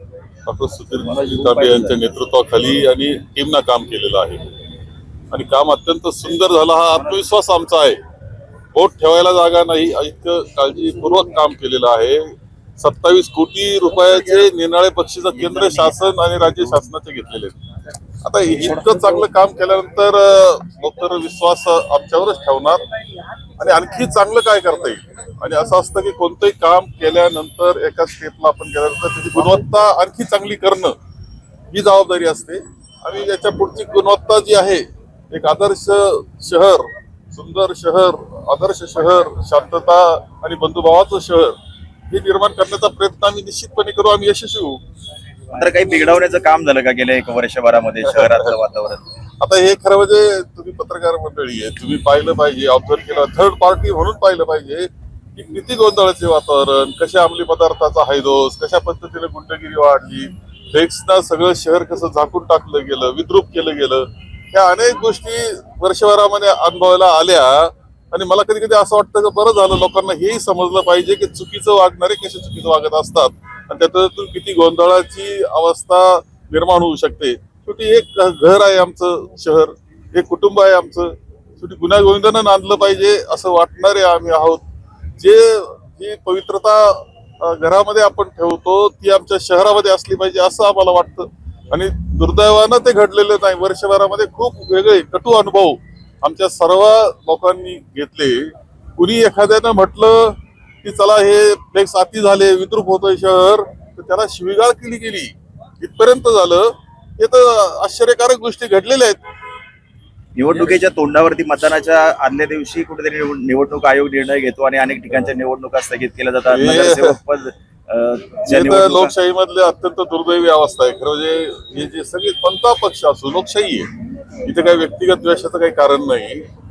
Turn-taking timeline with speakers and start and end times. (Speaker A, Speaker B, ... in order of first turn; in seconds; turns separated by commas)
Speaker A: 0.5-4.4, Speaker B: 1.1-2.0, Speaker A: 5.3-8.0, Speaker A: 8.7-17.6, Speaker B: 15.4-16.0, Speaker A: 18.2-22.8, Speaker B: 18.6-19.1, Speaker A: 23.6-30.9, Speaker A: 31.7-41.5, Speaker A: 42.1-44.8, Speaker B: 45.5-49.0, Speaker A: 49.4-84.6, Speaker A: 85.2-109.2, Speaker B: 110.3-119.1, Speaker A: 116.5-117.1, Speaker A: 118.5-123.9, Speaker A: 124.4-126.5